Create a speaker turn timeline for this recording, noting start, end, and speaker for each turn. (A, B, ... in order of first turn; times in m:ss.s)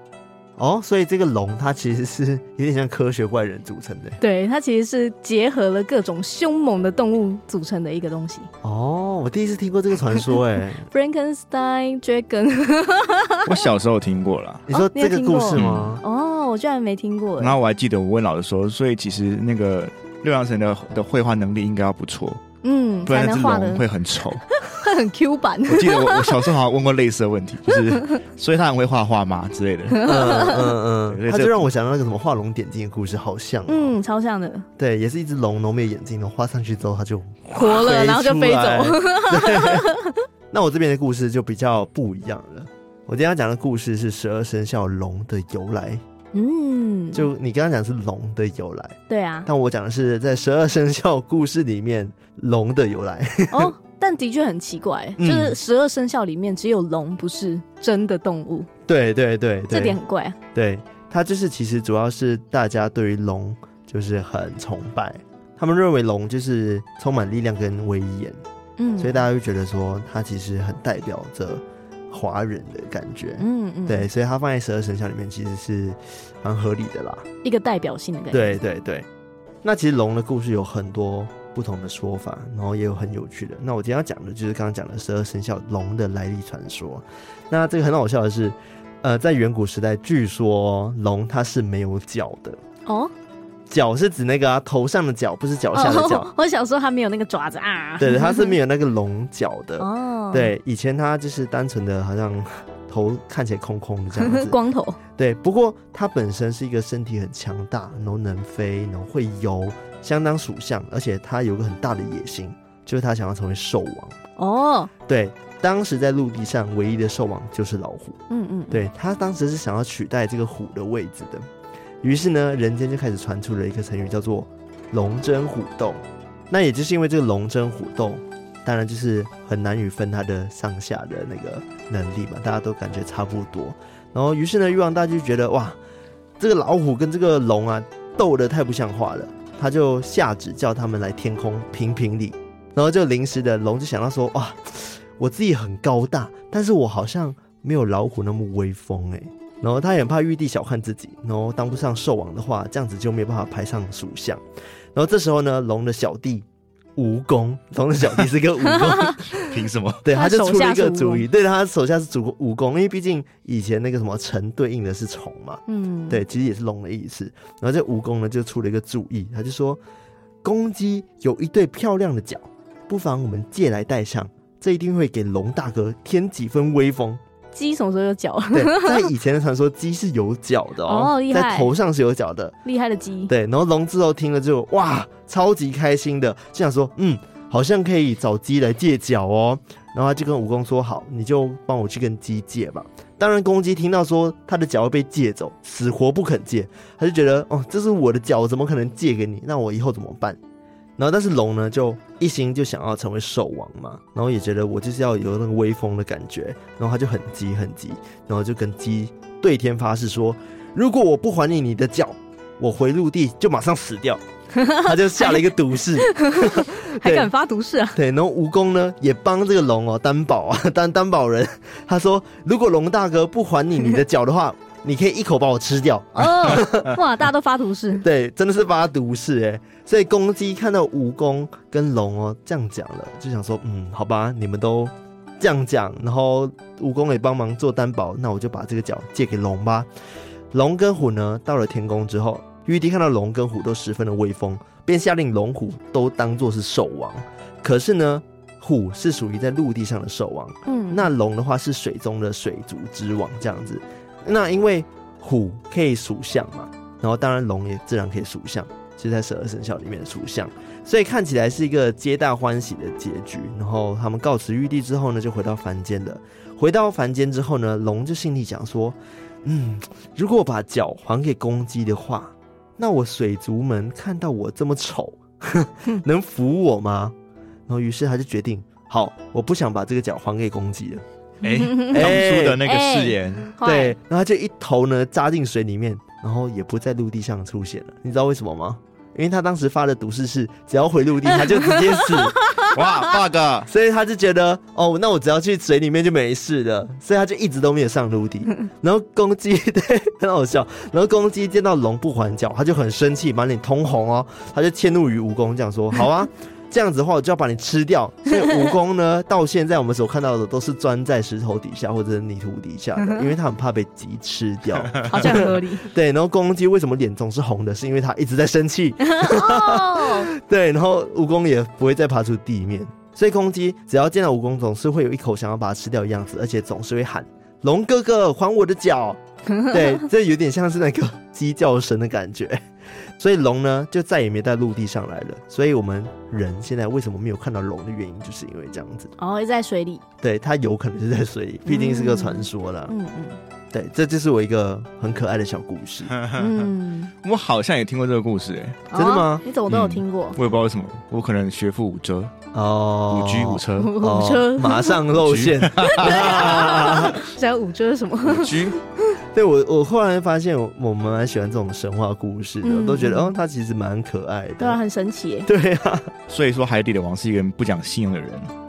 0:00.6-0:04.2 A
0:04.2-0:08.5 B
0:08.6-0:10.9 A
0:10.9-0:13.7 B
0:13.4-0:14.6 C
0:14.7-0:16.0 A
0:14.7-0:17.6 B
0:15.5-0:16.0 C
0:17.4-0:22.4 C
0:22.6-0:23.8 B
0:23.1-0:24.4 C
0:24.5-0:26.4 B
0:25.7-0:31.7 C
0:29.9-0:30.6 B
0:30.0-0:34.0 A
0:33.7-0:34.7 B
0:34.8-0:39.9 A
0:37.5-0:40.2 B
0:40.5-0:46.0 A
0:46.3-0:47.3 B
0:47.1-0:53.7 A
0:49.1-0:49.5 B
0:53.5-0:58.7 B
0:55.2-0:55.6 A
0:58.9-1:00.0 A
0:59.7-1:00.4 B
1:00.6-1:08.4 A
1:08.8-1:09.2 B
1:09.0-1:17.2 A
1:13.4-1:14.1 B
1:17.4-1:18.6 B
1:18.3-1:19.1 A
1:19.6-1:32.6 A
1:32.9-1:33.1 B
1:33.7-1:36.3 A
1:35.7-1:38.5 B
1:38.0-1:44.6 A
1:39.8-1:40.5 B
1:44.2-1:45.0 B
1:45.2-1:54.2 A
1:54.4-1:54.9 B
1:55.1-1:58.2 A
1:58.3-1:58.8 B
1:58.7-2:01.5 A
2:02.0-2:15.8 A
2:16.4-2:34.4 A
2:34.9-2:36.4 A
2:37.0-2:39.3 A
2:38.7-2:39.4 B
2:39.4-2:40.0 C
2:40.0-2:49.8 A
2:40.1-2:41.2 B
2:45.7-2:46.2 B
2:50.4-2:57.2 A
2:57.5-2:59.1 B
2:58.5-3:02.6 A
3:00.8-3:01.7 B
3:02.6-3:03.3 B
3:03.3-3:20.4 A
3:21.0-3:34.2 A
3:34.5-3:35.4 B
3:34.7-3:37.3 A
3:36.0-3:38.0 B
3:38.0-3:47.0 A
3:46.2-3:48.0 B
3:48.0-3:59.9 A
4:00.5-4:37.2 A
4:10.7-4:11.1 B
4:37.7-4:41.0 A
4:41.4-4:43.5 C
4:41.5-4:44.0 B
4:41.9-4:42.6 A
4:43.6-4:52.4 A
4:51.6-4:52.8 B
4:52.6-4:53.7 C
4:53.7-5:32.6 A
5:15.1-5:15.9 B
5:19.0-5:20.3 B
5:29.6-5:29.8 B
5:33.2-5:39.1 A
5:39.2-5:40.0 B
5:40.2-5:42.9 A
5:41.7-5:43.4 B
5:43.7-5:46.1 A
5:46.2-5:46.7 C
5:46.4-5:47.1 B
5:47.2-5:48.8 C
5:48.9-5:50.4 B
5:49.0-5:49.4 A
5:49.7-5:52.3 C
5:52.5-5:57.2 A
5:53.1-5:53.9 C
5:53.8-5:55.0 B
5:55.2-5:56.9 C
5:55.8-5:58.8 B
5:58.3-5:58.8 C
5:59.3-6:04.8 A
6:02.6-6:03.3 B
6:04.6-6:05.5 B
6:05.5-6:06.1 A
6:06.3-6:08.5 C